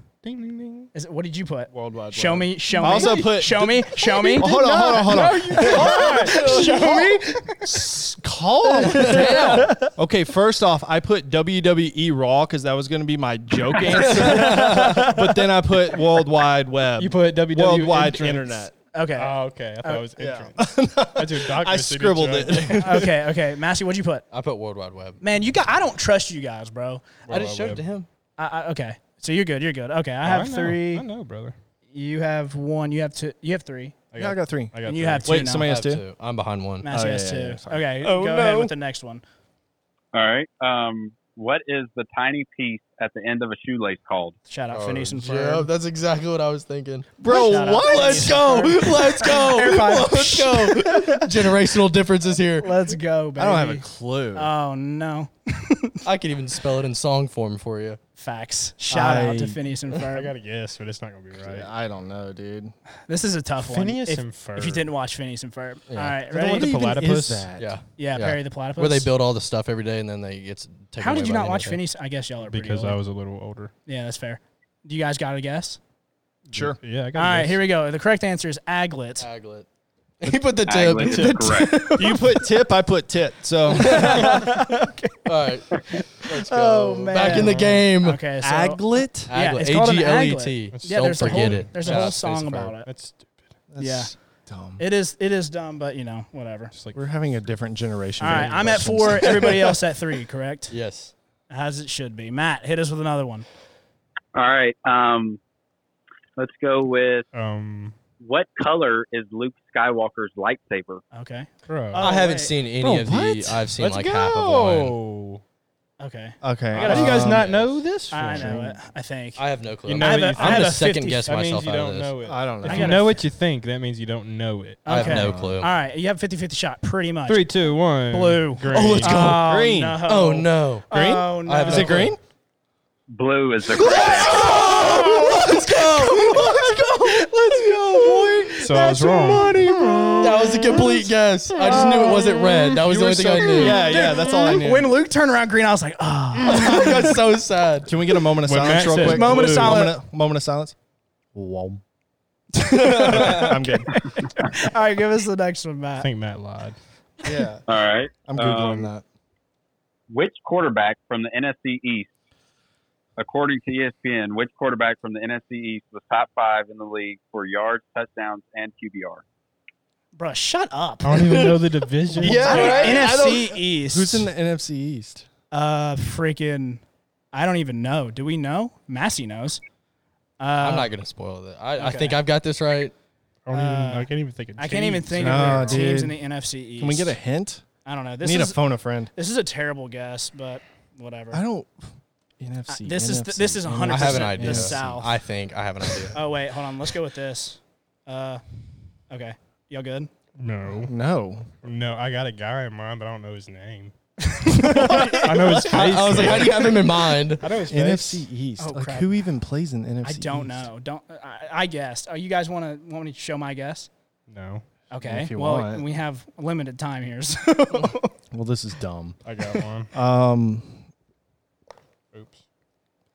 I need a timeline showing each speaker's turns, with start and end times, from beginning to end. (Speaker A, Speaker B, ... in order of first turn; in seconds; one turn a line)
Speaker A: 0.2-0.9
Speaker B: 0.9-4.8
Speaker C: 1.8-18.7
Speaker A: 1.8-3.3
Speaker A: 4.1-7.1
Speaker B: 5.5-8.1
Speaker B: 8.8-9.9
Speaker D: 8.9-9.7
Speaker B: 14.1-15.2
Speaker D: 14.2-14.9
Speaker A: 17.0-18.6
Speaker B: 18.9-20.1
Speaker A: 19.1-23.0
Speaker C: 20.2-23.1
Speaker B: 22.7-24.2
Speaker D: 24.3-25.2
Speaker B: 25.2-27.1
Speaker A: 27.3-27.8
Speaker D: 27.3-28.1
Speaker B: 28.4-31.1
Speaker A: 30.2-31.5
Speaker B: 31.9-33.9
Speaker A: 34.1-35.4
Speaker C: 34.1-36.0
Speaker B: 34.8-35.7
Speaker D: 35.6-36.9
Speaker B: 36.8-39.2
Speaker C: 36.9-38.7
Speaker E: 40.1-44.4
Speaker B: 44.5-45.7
Speaker D: 44.7-52.7
Speaker C: 47.2-48.4
Speaker B: 47.2-51.2
Speaker B: 52.6-56.0
Speaker C: 53.4-54.5
Speaker D: 56.0-58.0
Speaker B: 58.2-60.3
Speaker C: 58.9-59.6
Speaker A: 60.1-61.7
Speaker C: 61.4-62.7
Speaker B: 63.1-66.7
Speaker A: 63.6-64.9
Speaker D: 65.9-66.2
Speaker C: 66.3-67.7
Speaker A: 66.3-67.5
Speaker D: 67.6-71.8
Speaker B: 68.0-69.1
Speaker B: 71.0-73.0
Speaker A: 72.5-73.7
Speaker B: 73.9-75.8
Speaker A: 76.5-77.6
Speaker C: 76.5-76.8
Speaker B: 77.1-79.2
Speaker D: 79.2-79.7
Speaker D: 80.2-81.6
Speaker E: 80.7-81.8
Speaker C: 81.0-84.4
Speaker B: 81.1-82.5
Speaker B: 83.7-92.9
Speaker D: 83.8-84.5
Speaker D: 85.2-88.2
Speaker A: 87.2-87.8
Speaker C: 88.4-89.3
Speaker D: 89.3-92.7
Speaker A: 90.7-92.3
Speaker A: 92.8-93.5
Speaker C: 93.7-94.8
Speaker B: 93.8-94.1
Speaker B: 94.8-96.7
Speaker A: 96.7-97.0
Speaker C: 96.9-99.6
Speaker B: 98.2-100.8
Speaker A: 98.2-98.8
Speaker D: 100.7-101.1
Speaker B: 101.5-103.5
Speaker E: 104.3-105.4
Speaker E: 106.4-107.2
Speaker A: 107.3-108.0
Speaker E: 108.2-111.0
Speaker B: 111.1-112.5
Speaker A: 111.7-112.0
Speaker D: 112.0-115.0
Speaker C: 112.8-113.7
Speaker A: 113.8-115.4
Speaker B: 116.0-117.4
Speaker C: 116.4-117.5
Speaker A: 116.8-118.6
Speaker D: 117.2-117.7
Speaker B: 118.1-119.4
Speaker C: 118.3-118.8
Speaker D: 119.4-122.1
Speaker A: 119.9-125.1
Speaker B: 120.0-121.3
Speaker C: 122.2-123.2
Speaker B: 122.7-123.1
Speaker B: 124.8-127.5
Speaker D: 124.9-125.7
Speaker C: 125.0-125.6
Speaker A: 127.3-129.2
Speaker B: 128.1-132.0
Speaker D: 128.7-129.4
Speaker C: 128.8-130.0
Speaker D: 130.0-130.9
Speaker C: 130.9-132.2
Speaker D: 131.4-132.1
Speaker E: 133.1-134.6
Speaker C: 133.8-140.9
Speaker D: 133.8-138.6
Speaker B: 134.7-140.2
Speaker A: 138.6-139.6
Speaker D: 140.2-144.0
Speaker C: 141.7-142.2
Speaker C: 142.9-144.9
Speaker A: 142.9-143.7
Speaker B: 143.6-147.1
Speaker D: 146.4-147.9
Speaker C: 147.8-150.7
Speaker A: 148.4-149.8
Speaker B: 148.8-150.0
Speaker C: 151.3-151.8
Speaker B: 152.6-156.1
Speaker C: 152.8-153.9
Speaker D: 152.9-153.5
Speaker A: 156.0-156.8
Speaker C: 157.2-157.6
Speaker E: 157.7-158.9
Speaker C: 158.2-159.0
Speaker E: 160.1-162.1
Speaker E: 163.2-169.2
Speaker B: 170.2-171.5
Speaker A: 171.0-172.9
Speaker D: 172.2-173.2
Speaker C: 172.2-175.2
Speaker B: 172.2-174.3
Speaker B: 175.5-176.8
Speaker B: 177.3-179.6
Speaker B: 180.4-180.9
Speaker D: 180.6-182.9
Speaker B: 181.8-182.2
Speaker A: 183.4-185.8
Speaker B: 183.5-187.2
Speaker C: 185.2-186.2
Speaker C: 186.8-187.6
Speaker B: 187.8-188.6
Speaker C: 188.2-189.1
Speaker B: 189.1-191.4
Speaker C: 191.3-191.7
Speaker C: 192.4-194.8
Speaker B: 192.7-195.1
Speaker D: 193.9-196.2
Speaker B: 196.1-198.4
Speaker B: 199.1-200.1
Speaker A: 200.4-200.9
Speaker C: 200.8-201.5
Speaker A: 201.6-203.9
Speaker B: 204.2-205.6
Speaker A: 204.7-206.8
Speaker C: 204.7-206.7
Speaker D: 205.4-207.5
Speaker A: 207.4-208.2
Speaker C: 207.5-210.7
Speaker B: 208.6-209.1
Speaker B: 210.0-213.9
Speaker A: 214.3-214.7
Speaker B: 214.9-218.1
Speaker C: 215.0-215.8
Speaker C: 218.3-219.2
Speaker A: 219.2-219.9
Speaker C: 219.9-220.8
Speaker A: 222.1-222.4